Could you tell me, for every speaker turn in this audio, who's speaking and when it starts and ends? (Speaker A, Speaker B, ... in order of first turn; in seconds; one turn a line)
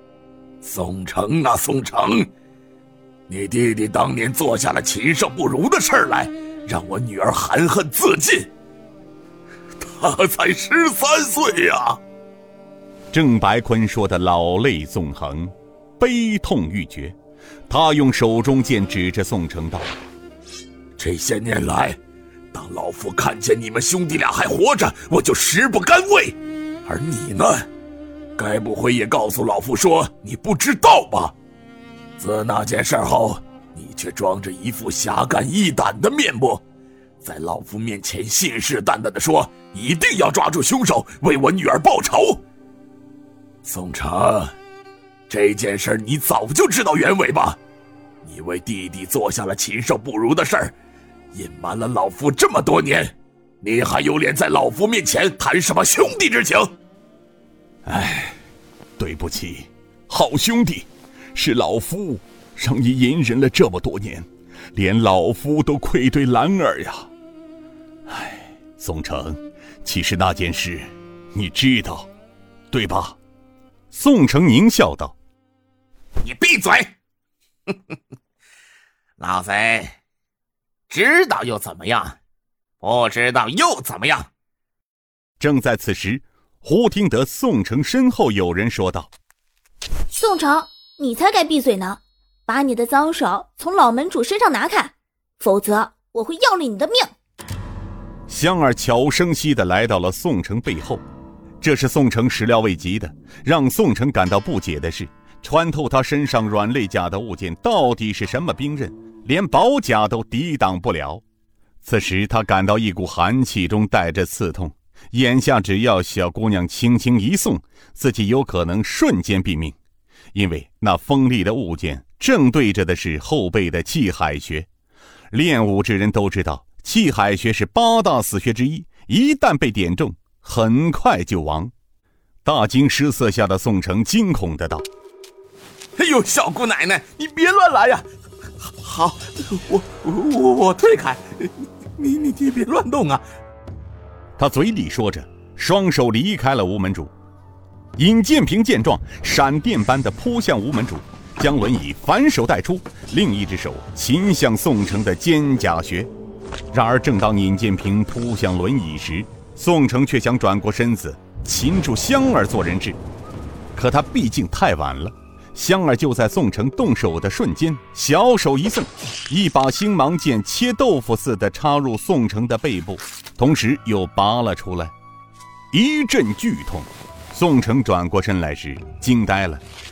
Speaker A: 0.6-2.3
Speaker A: 3.3-8.5
Speaker A: 9.8-12.0
Speaker B: 13.1-17.2
Speaker B: 17.7-19.9
Speaker A: 21.0-22.0
Speaker A: 22.5-27.7
Speaker A: 28.4-31.4
Speaker A: 32.2-36.6
Speaker A: 37.2-42.4
Speaker A: 43.6-44.5
Speaker A: 45.3-47.6
Speaker A: 48.2-50.8
Speaker A: 51.3-56.7
Speaker B: 57.9-58.4
Speaker B: 59.0-67.1
Speaker B: 68.1-72.1
Speaker B: 72.7-73.2
Speaker B: 73.9-75.2
Speaker A: 76.2-77.0
Speaker A: 79.2-80.0
Speaker A: 80.9-82.2
Speaker A: 82.8-84.3
Speaker B: 85.4-89.1
Speaker C: 90.1-97.1
Speaker B: 98.3-101.0
Speaker B: 101.6-111.2
Speaker B: 111.8-119.8
Speaker B: 120.3-124.7
Speaker B: 125.3-131.7
Speaker B: 132.4-134.8
Speaker A: 136.0-138.1
Speaker A: 138.6-143.2
Speaker B: 144.4-147.1
Speaker B: 148.0-156.1
Speaker B: 156.7-163.0
Speaker B: 163.8-174.9
Speaker B: 175.7-179.6